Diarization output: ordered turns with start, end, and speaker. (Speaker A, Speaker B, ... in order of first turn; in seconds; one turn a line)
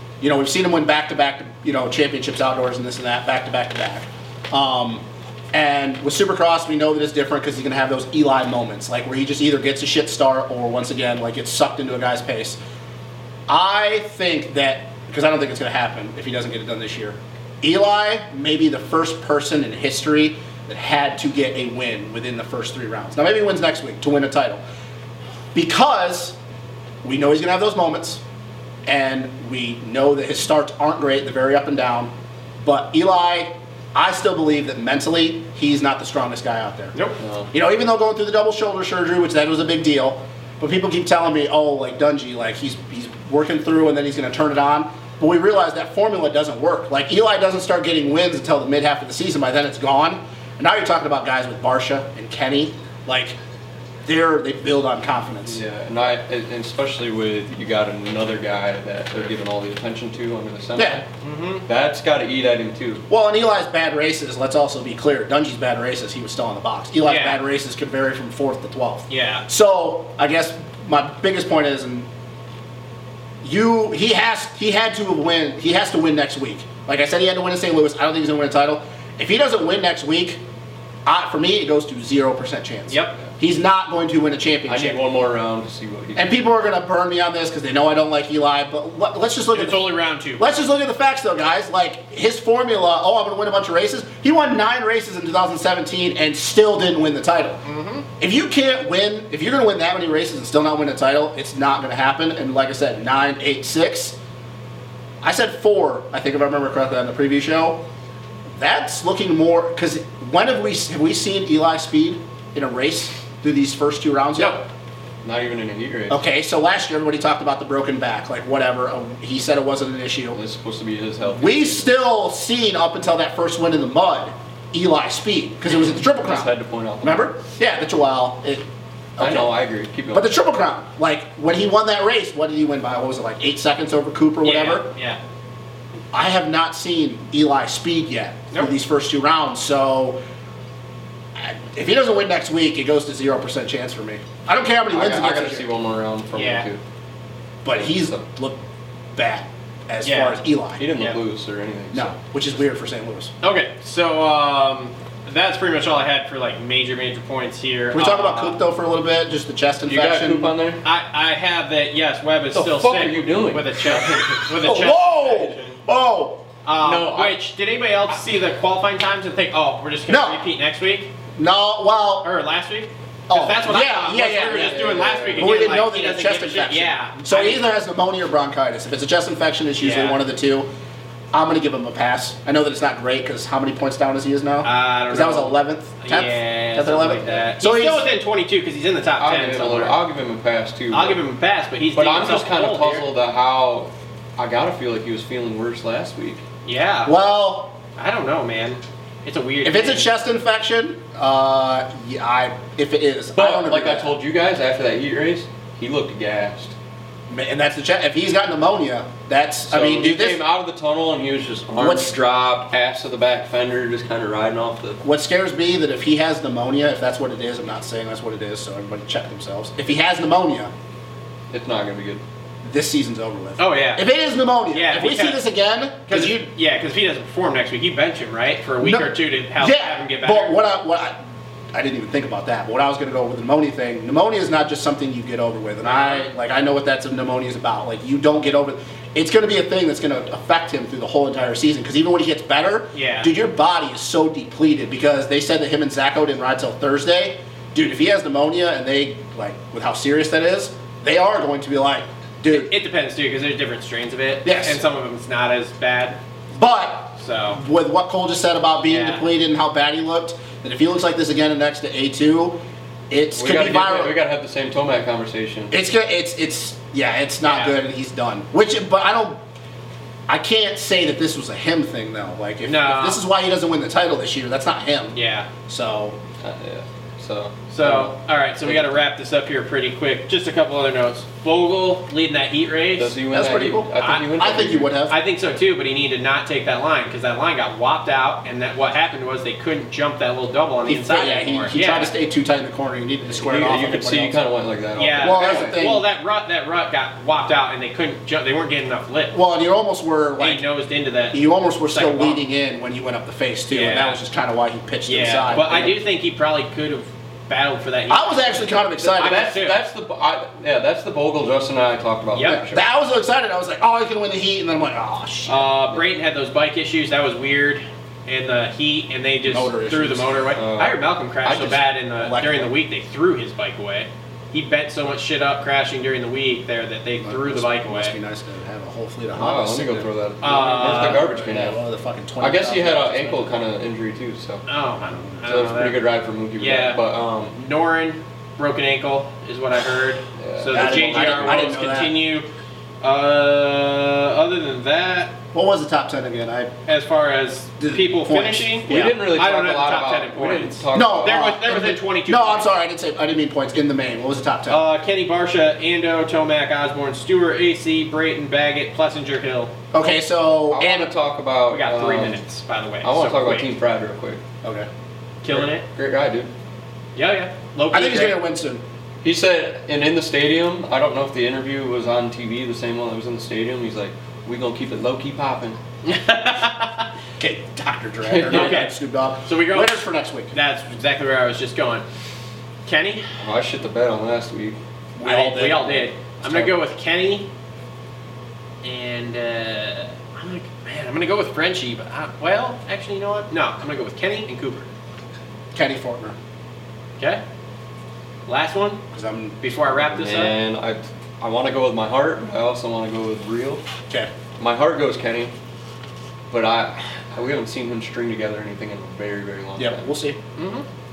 Speaker A: 0.2-12.6
Speaker A: 13.5-24.6
Speaker A: 25.5-26.4
Speaker A: 27.0-28.2
Speaker A: 28.9-36.9
Speaker B: 36.9-37.2
Speaker C: 37.2-37.5
Speaker A: 37.5-53.4
Speaker A: 54.0-55.6
Speaker C: 55.5-61.1
Speaker A: 60.8-61.0
Speaker B: 61.2-61.6
Speaker C: 61.7-63.0
Speaker A: 63.1-72.1
Speaker B: 67.0-67.4
Speaker B: 69.1-69.5
Speaker A: 73.4-80.4
Speaker A: 81.1-85.0
Speaker B: 82.9-83.2
Speaker C: 84.7-86.4
Speaker A: 86.2-97.6
Speaker B: 89.5-90.5
Speaker B: 97.7-98.1
Speaker A: 98.2-104.2
Speaker A: 105.2-107.8
Speaker A: 108.6-114.6
Speaker C: 115.2-116.2
Speaker A: 116.1-120.4
Speaker C: 120.3-121.9
Speaker A: 121.3-128.7
Speaker C: 125.9-127.3
Speaker A: 129.2-129.5
Speaker C: 129.2-130.3
Speaker A: 130.1-134.9
Speaker B: 134.4-135.2
Speaker A: 136.1-140.2
Speaker A: 141.4-145.7
Speaker C: 144.9-146.8
Speaker B: 146.3-146.7
Speaker A: 147.7-148.6
Speaker C: 147.7-148.2
Speaker A: 149.2-150.8
Speaker B: 150.0-150.4
Speaker C: 150.8-152.2
Speaker A: 151.9-153.3
Speaker B: 153.4-158.6
Speaker A: 157.9-160.5
Speaker C: 159.9-160.8
Speaker B: 160.8-165.8
Speaker C: 162.5-164.5
Speaker A: 164.5-166.4
Speaker B: 166.6-171.1
Speaker C: 166.8-167.4
Speaker A: 170.1-170.4
Speaker A: 171.4-172.3
Speaker B: 172.2-177.6
Speaker A: 173.3-180.7
Speaker C: 174.4-175.7
Speaker B: 179.8-180.2
Speaker A: 181.3-188.1
Speaker B: 184.6-190.0
Speaker C: 189.2-191.2
Speaker B: 190.9-193.1
Speaker C: 191.9-196.4
Speaker B: 196.7-197.2
Speaker A: 197.1-197.8
Speaker B: 198.0-200.1
Speaker A: 199.6-204.1
Speaker C: 203.4-206.8
Speaker A: 207.3-210.4
Speaker C: 209.7-215.0
Speaker A: 211.8-212.2
Speaker A: 215.0-220.7
Speaker C: 221.5-222.2
Speaker A: 222.6-226.5
Speaker B: 223.6-224.1
Speaker B: 224.7-225.4
Speaker B: 226.1-230.6
Speaker A: 228.8-231.2
Speaker A: 231.7-252.7
Speaker B: 235.8-236.2
Speaker B: 242.9-243.3
Speaker B: 252.5-256.2
Speaker A: 254.4-254.8
Speaker A: 256.5-264.2
Speaker B: 257.2-257.6
Speaker B: 258.8-259.2
Speaker C: 263.3-265.8
Speaker A: 265.7-269.4
Speaker B: 267.4-267.8
Speaker A: 270.3-276.2
Speaker B: 272.6-273.2
Speaker B: 275.1-275.5
Speaker C: 276.4-279.0
Speaker B: 277.7-283.1
Speaker C: 283.0-284.9
Speaker A: 283.3-285.2
Speaker B: 284.0-284.3
Speaker B: 285.1-292.1
Speaker A: 290.9-294.4
Speaker C: 293.3-295.7
Speaker B: 295.0-299.4
Speaker A: 295.2-296.1
Speaker A: 299.3-300.6
Speaker B: 300.4-302.4
Speaker A: 301.3-306.0
Speaker B: 303.7-304.2
Speaker B: 305.1-309.8
Speaker A: 308.1-309.5
Speaker C: 309.0-312.9
Speaker B: 312.4-312.6
Speaker A: 312.5-315.7
Speaker B: 315.5-328.1
Speaker A: 319.5-320.6
Speaker C: 320.6-321.0
Speaker A: 321.4-322.7
Speaker A: 327.2-333.6
Speaker C: 329.4-331.8
Speaker B: 330.4-331.2
Speaker C: 332.4-334.6
Speaker B: 334.7-336.0
Speaker C: 335.5-337.6
Speaker B: 336.6-337.0
Speaker B: 337.5-342.5
Speaker C: 340.4-341.7
Speaker A: 340.7-342.1
Speaker B: 343.0-345.4
Speaker A: 345.5-346.7
Speaker B: 346.9-352.7
Speaker A: 347.8-349.2
Speaker C: 348.9-351.4
Speaker A: 350.9-354.8
Speaker B: 354.7-359.7
Speaker A: 359.9-361.1
Speaker C: 360.7-362.4
Speaker B: 361.7-363.7
Speaker C: 363.0-364.4
Speaker A: 364.6-364.9
Speaker B: 365.4-365.9
Speaker C: 365.5-366.5
Speaker B: 367.2-368.4
Speaker A: 367.9-368.8
Speaker C: 369.2-375.8
Speaker B: 376.1-377.1
Speaker A: 377.4-380.5
Speaker C: 378.3-378.8
Speaker B: 378.5-382.1
Speaker B: 382.9-383.3
Speaker C: 383.4-384.8
Speaker A: 385.2-386.7
Speaker B: 385.2-387.5
Speaker B: 388.8-394.9
Speaker A: 395.7-396.4
Speaker B: 398.5-399.0
Speaker A: 399.1-399.6
Speaker B: 399.6-400.5
Speaker C: 400.0-403.8
Speaker C: 404.6-405.5
Speaker C: 406.5-410.1
Speaker A: 409.8-410.4
Speaker B: 410.6-410.9